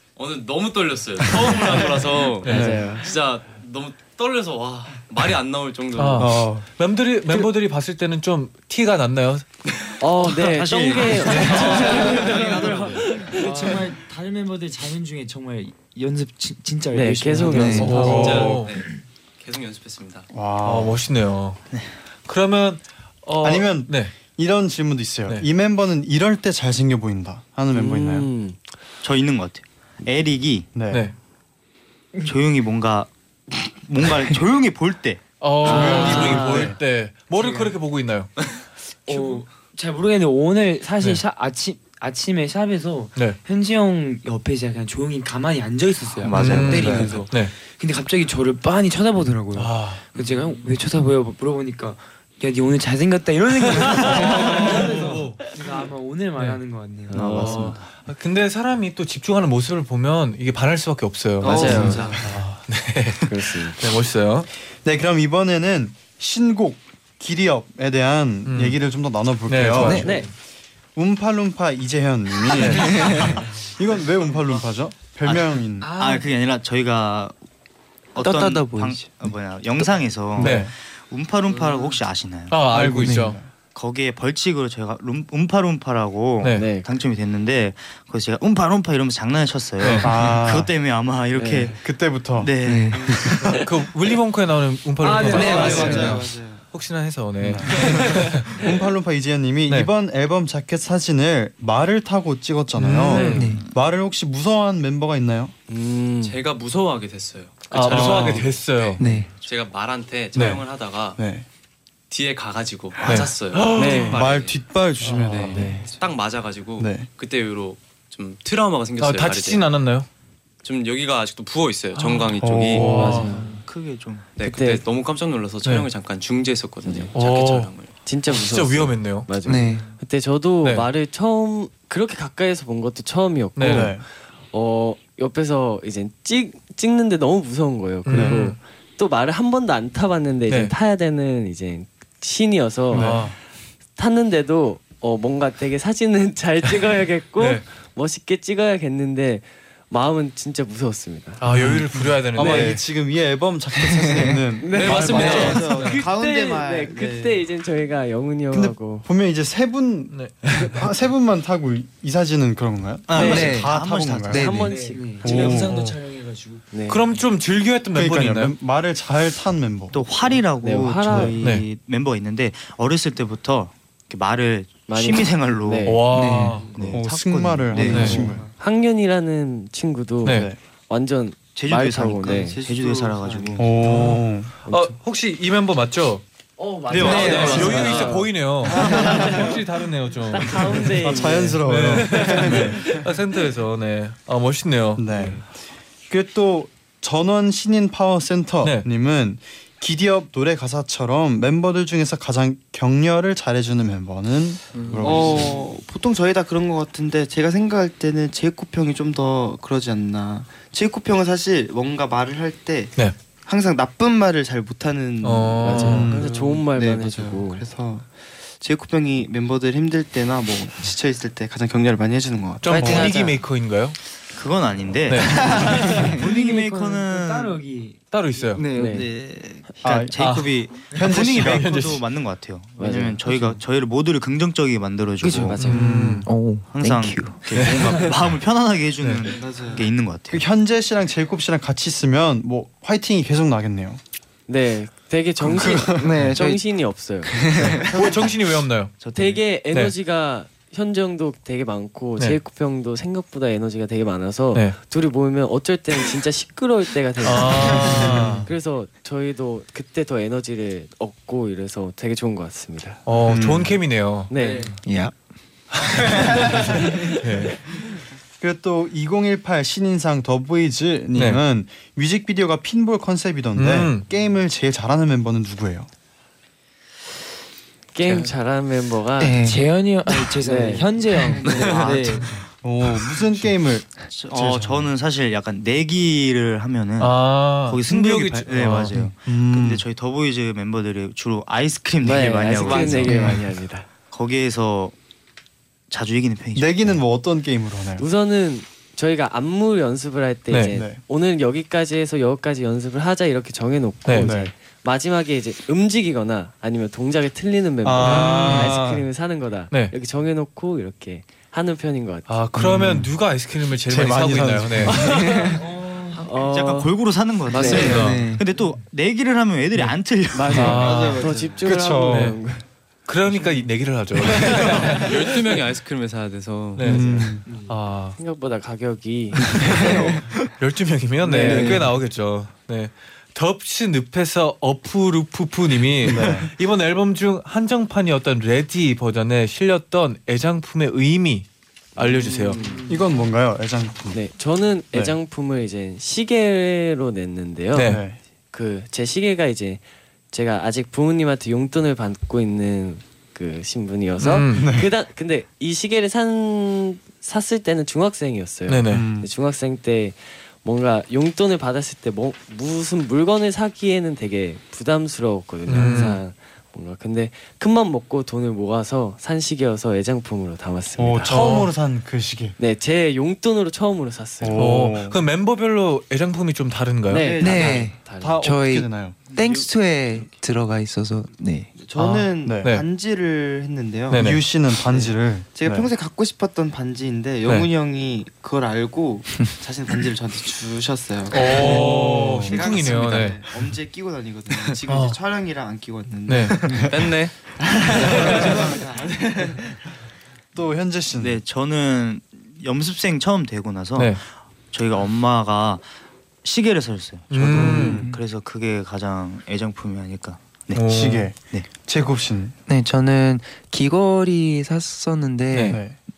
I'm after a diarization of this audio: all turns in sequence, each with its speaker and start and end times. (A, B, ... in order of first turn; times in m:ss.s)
0:00.2-0:06.3 A
0:02.4-0:02.8 B
0:02.4-0:02.9 C
0:02.4-0:03.1 D
0:05.9-0:09.4 B
0:06.2-0:06.6 C
0:10.0-0:13.8 D
0:10.4-0:13.0 E
0:10.9-0:12.9 A
0:11.2-0:12.1 B
0:11.5-0:18.4 F
0:16.9-0:18.4 D
0:17.5-0:18.0 G
0:17.8-0:18.7 B
0:17.9-0:18.7 C
0:18.0-0:20.3 A
0:20.3-0:21.0 C
0:20.6-0:21.7 B
0:22.2-0:24.1 B
0:23.4-0:28.3 C
0:27.7-0:28.6 D
0:29.0-0:30.7 E
0:30.7-0:31.1 C
0:32.2-0:35.2 E
0:35.4-0:38.3 B
0:35.6-0:36.8 C
0:35.6-0:36.7 D
0:35.9-0:36.4 F
0:37.4-0:37.7 F
0:39.1-0:57.4 F
0:46.2-0:47.1 E
0:46.3-0:47.5 B
0:46.8-0:47.0 G
0:49.5-0:50.1 B
0:50.1-0:50.7 A
0:53.9-0:55.6 B
0:56.4-0:56.6 B
0:57.1-0:57.8 D
0:57.1-0:57.9 E
0:57.3-1:04.5 B
1:01.4-1:02.2 D
1:01.4-1:02.1 A
1:01.5-1:02.2 H
1:03.2-1:03.8 D
1:04.8-1:10.3 C
1:08.4-1:08.8 B
1:09.5-1:10.2 B
1:09.8-1:10.1 G
1:10.0-1:10.3 D
1:11.0-1:16.0 C
1:12.5-1:13.1 B
1:12.8-1:13.3 G
1:15.2-1:17.4 E
1:15.8-1:16.3 F
1:18.1-1:22.6 E
1:18.2-1:19.3 G
1:20.3-1:20.7 C
1:20.4-1:20.7 B
1:22.5-1:23.4 B
1:22.7-1:23.5 C
1:23.0-1:23.4 G
1:23.7-1:31.8 E
1:26.4-1:26.6 B
1:26.5-1:26.9 D
1:29.8-1:30.3 B
1:30.0-1:30.7 C
1:31.4-1:31.7 D
1:31.8-1:32.5 C
1:32.4-1:33.6 E
1:32.6-1:33.1 G
1:33.0-1:33.5 C
1:33.5-1:38.5 B
1:35.0-1:36.2 F
1:35.3-1:36.1 G
1:35.4-1:36.6 H
1:35.5-1:36.2 D
1:37.4-1:45.5 C
1:37.8-1:38.2 F
1:42.8-1:43.5 B
1:43.1-1:43.5 D
1:43.3-1:43.7 G
1:45.7-1:46.4 D
1:46.2-1:51.2 A
1:47.7-1:49.1 B
1:47.9-1:48.5 C
1:49.0-1:49.3 G
1:50.4-1:51.5 C
1:52.1-1:54.6 A
1:53.0-1:53.4 C
1:53.0-1:54.2 B
1:53.8-1:54.2 D
1:53.9-1:55.9 C
1:55.1-1:59.6 A
1:56.8-1:57.1 C
1:59.0-2:00.1 B
2:00.6-2:03.0 A
2:02.4-2:03.2 C
2:02.7-2:03.5 B
2:02.8-2:03.6 F
2:03.6-2:04.4 E
2:04.4-2:07.9 A
2:04.4-2:04.8 D
2:05.6-2:05.9 B
2:06.8-2:07.1 D
2:07.1-2:07.7 B
2:08.0-2:23.2 D
2:08.3-2:09.3 B
2:09.4-2:09.9 G
2:10.6-2:10.9 B
2:13.6-2:13.9 B
2:13.7-2:14.0 C
2:18.0-2:18.6 B
2:18.1-2:18.4 C
2:20.5-2:20.7 B
2:22.9-2:23.3 C
2:22.9-2:23.4 B
2:24.0-2:31.4 D
2:27.4-2:27.6 B
2:31.4-2:32.8 B
2:31.5-2:35.6 C
2:32.4-2:32.7 D
2:34.1-2:34.4 G
2:34.6-2:39.0 D
2:34.7-2:35.6 A
2:34.8-2:37.4 H
2:35.1-2:35.6 G
2:38.5-2:44.5 C
2:40.1-2:40.9 B
2:43.1-2:44.7 E
2:43.1-2:43.5 D
2:43.1-2:43.8 G
2:44.3-2:44.9 G
2:44.3-2:45.6 D
2:44.6-2:46.7 F
2:45.2-2:45.8 C
2:45.6-2:46.0 B
2:46.7-2:47.0 D
2:46.9-2:48.6 B
2:47.9-2:50.0 C
2:49.9-2:56.1 E
2:50.6-2:51.4 D
2:54.9-2:56.0 D
2:55.9-2:56.7 B
2:56.1-2:56.7 G
2:56.6-2:57.0 F
2:56.7-2:58.4 E
2:56.8-2:58.4 C
2:57.9-2:58.2 B
2:57.9-3:02.6 D
2:58.0-2:58.5 H
3:00.2-3:00.5 B
3:00.2-3:00.6 C
3:01.5-3:03.7 E
3:02.3-3:03.6 H
3:03.6-3:04.5 C
3:03.8-3:06.2 B
3:04.6-3:05.0 D
3:06.6-3:09.5 D
3:06.9-3:08.1 E
3:07.0-3:07.9 G
3:07.1-3:15.4 B
3:08.7-3:09.4 E
3:08.8-3:09.2 G
3:10.3-3:13.1 D
3:10.9-3:13.0 C
3:15.0-3:15.5 C
3:16.1-3:25.6 C
3:18.6-3:18.9 B
3:24.8-3:25.4 A
3:25.0-3:42.7 H
3:35.2-3:36.1 B
3:35.6-3:37.6 D
3:35.8-3:36.2 C
3:42.6-3:44.0 B
3:42.7-3:43.1 C
3:42.7-3:43.1 G
3:43.0-3:43.3 D
3:44.3-3:47.6 E
3:45.1-3:46.1 B
3:45.3-3:48.5 F
3:48.1-3:48.7 B
3:48.5-3:49.1 G
3:48.7-3:49.1 D
3:48.8-3:55.6 E
3:49.8-3:50.4 C
3:50.2-3:52.0 B
3:50.9-3:51.7 C
3:52.8-3:53.2 D
3:55.2-3:55.9 D
3:55.6-3:56.3 B
3:55.7-3:56.3 C
3:56.2-3:58.1 G
3:56.7-4:00.4 E
3:57.5-3:58.1 B
3:59.0-3:59.3 B
3:59.3-3:59.8 H
4:00.3-4:04.0 C
4:04.5-4:07.9 D
4:05.4-4:06.3 C
4:06.0-4:06.6 G
4:07.2-4:07.9 G
4:07.8-4:09.4 E
4:07.9-4:09.0 B
4:09.1-4:23.0 D
4:17.2-4:18.5 B
4:17.8-4:18.5 C
4:23.0-4:24.3 B
4:23.2-4:23.8 C
4:24.3-4:24.8 D
4:24.4-4:24.7 F
4:24.8-4:25.1 G
4:26.0-4:27.7 B
4:28.4-4:35.9 C
4:31.1-4:31.4 B
4:33.6-4:34.1 B
4:37.9-4:39.4 D
4:38.0-4:38.3 A
4:39.2-4:39.6 G
4:39.4-4:42.4 F
4:40.4-4:40.9 D
4:41.4-4:42.1 E
4:41.5-4:42.0 H
4:42.6-4:44.9 C
4:44.1-4:53.3 E
4:47.0-4:48.9 B
4:49.1-4:49.8 C
4:52.0-4:53.9 D
4:52.8-4:53.4 G
4:53.1-4:53.4 C
4:54.1-4:54.9 E
4:55.9-4:57.0 E
4:56.5-4:58.0 C
4:58.0-5:12.3 D
5:00.5-5:00.8 B
5:00.7-5:01.0 C
5:04.0-5:04.3 B
5:04.2-5:04.5 C
5:07.8-5:09.0 C
5:08.0-5:08.8 B
5:12.3-5:15.2 B
5:12.6-5:13.1 C
5:13.9-5:15.4 C
5:14.9-5:15.6 D
5:15.4-5:16.3 F
5:16.1-5:16.9 D
5:16.4-5:20.8 E
5:17.5-5:18.1 D
5:17.5-5:18.4 G
5:20.3-5:22.6 D
5:20.5-5:21.2 B
5:20.6-5:22.4 C
5:20.8-5:21.7 H
5:22.0-5:22.4 B
5:23.0-5:25.3 B
5:24.8-5:26.8 A
5:26.8-5:28.2 B
5:26.8-5:27.4 C
5:27.4-5:27.7 F
5:28.1-5:30.1 D
5:29.6-5:30.1 G
5:30.6-5:42.6 B
5:31.2-5:31.8 D
5:31.4-5:32.0 G
5:36.0-5:36.5 C
5:42.0-5:42.9 D
5:42.6-5:43.2 F
5:42.9-5:44.2 C
5:44.1-5:47.9 D
5:47.8-5:48.0 B
5:47.8-5:48.2 C
5:48.5-6:11.4 D
5:54.2-5:54.8 B
5:54.5-5:54.9 C
5:58.7-5:59.0 B
5:58.9-5:59.3 C
6:05.7-6:06.2 B
6:11.0-6:12.6 C
6:11.2-6:11.7 B
6:12.6-6:14.7 D
6:14.4-6:15.2 C
6:14.5-6:17.3 B
6:17.1-6:18.4 D
6:17.1-6:18.0 H
6:17.4-6:21.7 G
6:18.2-6:19.3 C
6:21.7-6:39.8 H
6:22.0-6:22.8 B
6:22.4-6:22.7 C
6:24.1-6:24.4 B
6:24.1-6:25.9 C
6:31.3-6:33.4 B
6:31.5-6:32.6 C
6:34.9-6:35.2 B
6:36.3-6:36.8 B
6:36.6-6:36.9 C
6:36.9-6:37.4 A
6:38.2-6:38.7 C
6:40.5-6:41.4 C
6:41.2-6:45.9 E
6:44.0-6:44.2 B
6:46.4-6:50.9 E
6:47.3-6:48.0 B
6:47.5-6:48.2 C
6:50.7-6:51.3 B
6:50.9-6:52.5 C
6:51.4-6:51.7 E
6:52.7-6:55.8 G
6:55.5-6:55.8 B
6:55.7-6:56.0 C